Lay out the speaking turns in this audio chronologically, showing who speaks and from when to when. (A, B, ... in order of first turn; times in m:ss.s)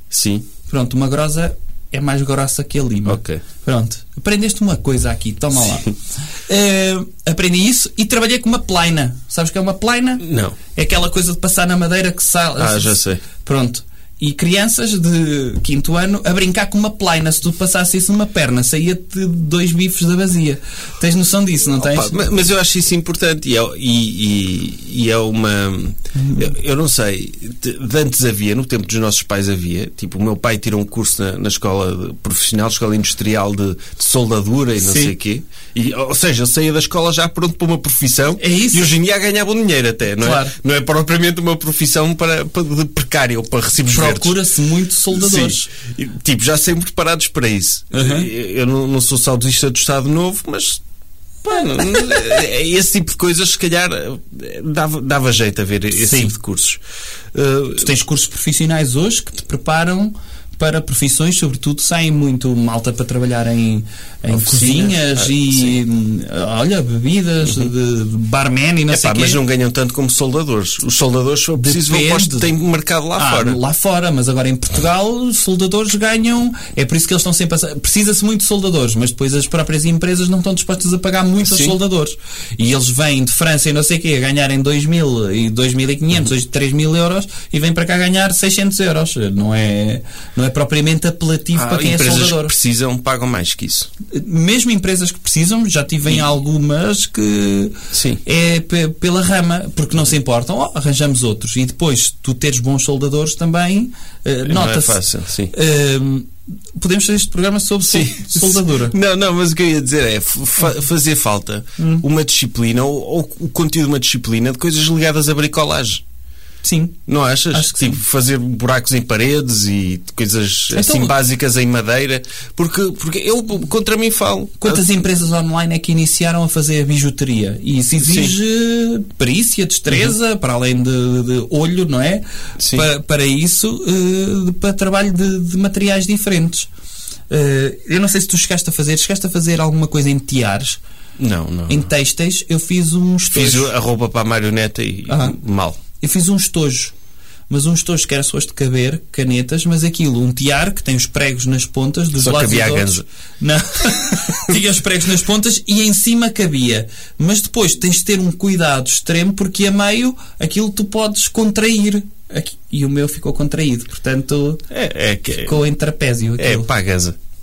0:00.1-0:00.5 A
0:00.7-0:22.3 B
0:03.1-0:03.4 A
0:10.2-0:10.6 A
0:12.6-0:13.2 A
0:21.8-0:44.4 A
0:26.2-0:26.5 B
0:34.8-0:35.1 B
0:38.4-0:38.9 B
0:40.2-0:40.6 B
0:43.9-0:45.7 B
0:45.1-0:50.8 A
0:47.9-0:48.3 B
0:51.4-0:56.8 A
0:55.9-0:56.4 B
0:57.3-0:57.9 A
0:57.8-1:09.4 B
1:04.3-1:05.8 A
1:08.9-1:13.6 A
1:11.6-1:12.5 B
1:13.2-1:32.5 B
1:21.4-1:21.8 A
1:31.6-1:33.9 A
1:34.1-1:49.0 B
1:37.9-1:38.2 A
1:44.4-1:45.5 A
1:47.9-1:56.0 A
1:51.8-1:52.0 B
1:56.6-1:57.0 B
1:57.1-2:04.9 A
1:57.5-1:58.0 B
2:00.7-2:01.2 B
2:04.6-2:16.7 B
2:08.0-2:08.3 A
2:09.9-2:10.1 A
2:12.6-2:12.9 A
2:17.3-2:20.8 B
2:21.2-2:21.9 A
2:21.7-2:23.7 B
2:23.3-2:25.8 A
2:25.1-2:25.4 B
2:26.0-2:26.9 B
2:27.5-2:44.6 B
2:32.2-2:33.0 A
2:44.7-2:45.6 A
2:45.3-2:46.7 B
2:46.4-2:47.2 A